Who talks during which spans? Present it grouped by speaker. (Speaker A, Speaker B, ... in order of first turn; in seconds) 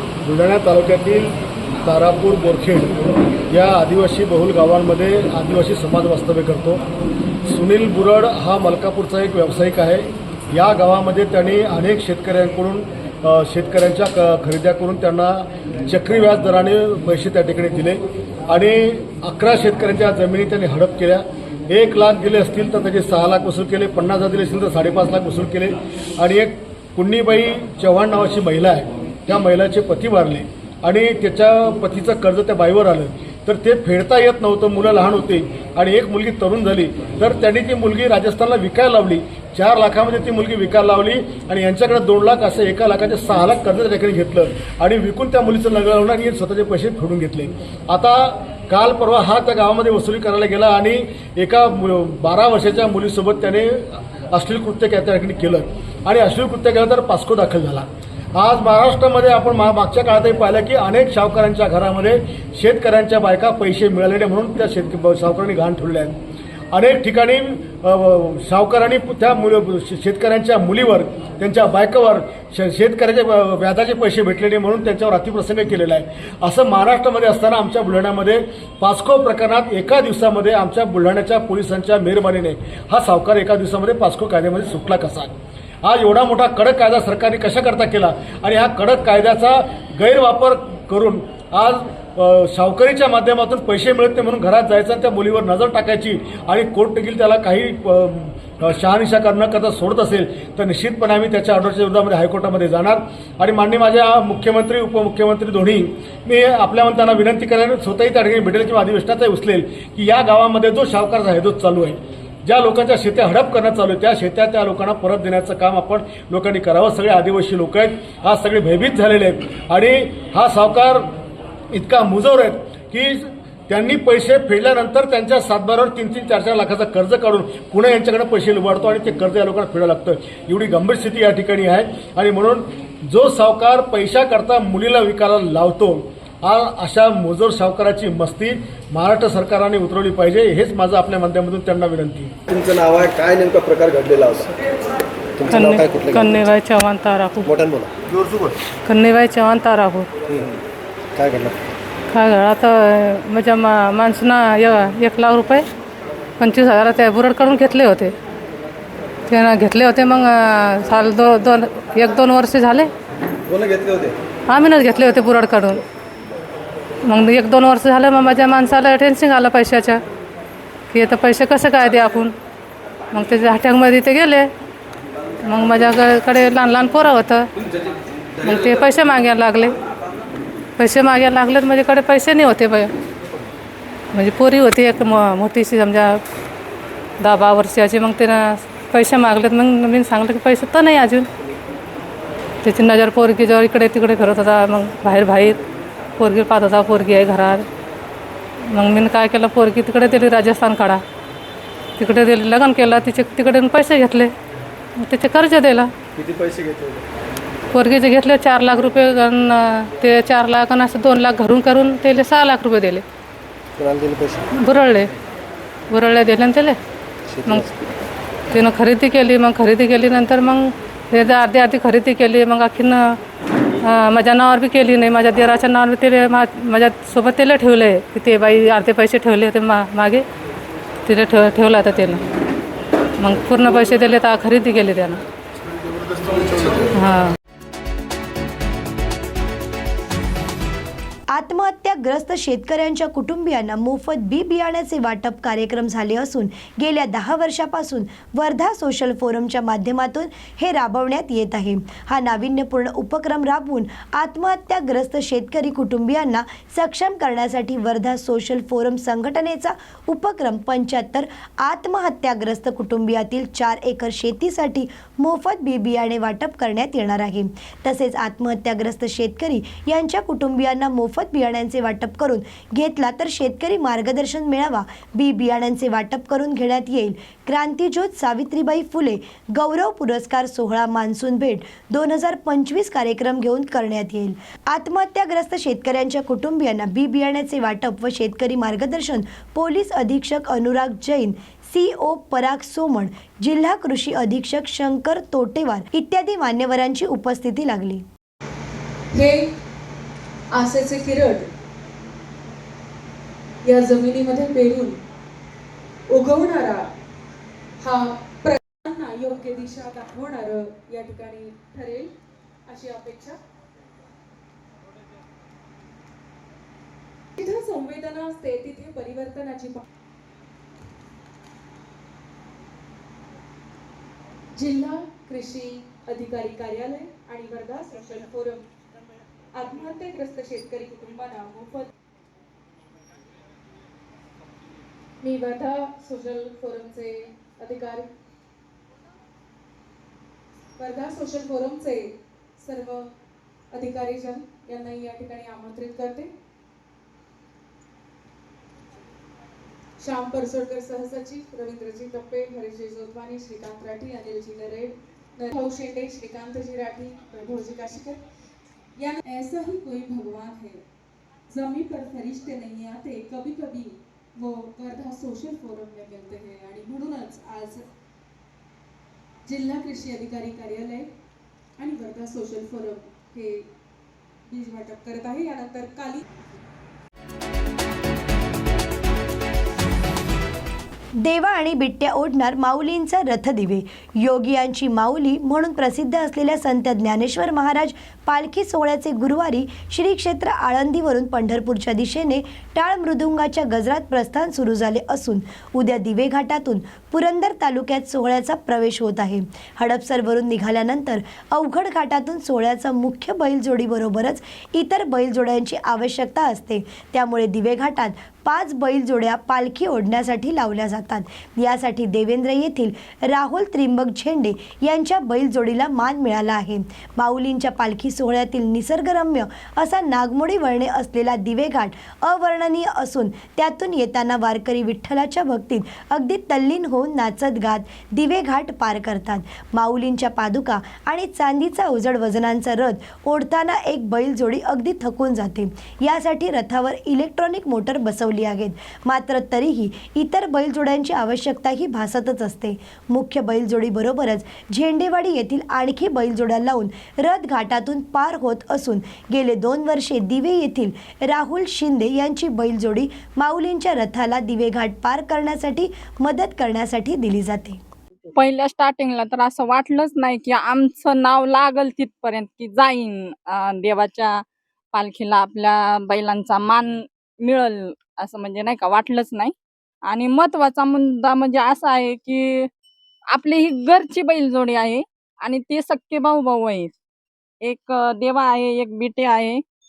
Speaker A: 0.2-2.9, 3.5-6.8, 7.5-66.2, 66.7-121.1, 121.7-142.3
Speaker B: 142.5-144.5, 145.4-146.3, 147.5-148.6, 150.3-150.6, 151.2-151.6, 163.5-164.2, 206.2-207.0, 213.8-214.4, 217.4-217.6
Speaker C: 145.5-147.6, 148.9-150.1, 152.1-155.7, 156.4-158.2, 159.3-162.9, 164.5-165.8, 167.1-170.0, 170.9-172.3, 173.1-174.5, 175.4-177.5, 178.4-179.8, 180.8-182.9, 184.1-186.2, 187.2-191.3, 192.6-195.6, 196.2-197.7, 198.7-201.0, 202.0-204.3, 205.0-205.9, 207.7-213.0, 214.5-215.1, 215.9-216.8, 217.4-217.7, 218.5-223.2, 223.8-230.2, 231.1-232.2, 233.2-235.2, 236.9-237.3
Speaker D: 241.3-298.0, 381.2-457.8
Speaker E: 299.1-299.5, 300.5-301.5, 303.6-305.0, 306.1-306.9, 307.8-312.1, 312.7-313.4, 317.4-319.8, 324.6-328.6, 329.5-331.9, 335.2-338.1, 340.8-343.1, 343.7-346.3, 350.0-358.2, 359.0-360.8, 361.5-367.9, 369.4-371.1, 371.8-373.7, 374.5-376.2
Speaker F: 458.4-464.4, 464.9-469.5, 470.1-472.5, 473.3-476.9, 477.6-479.6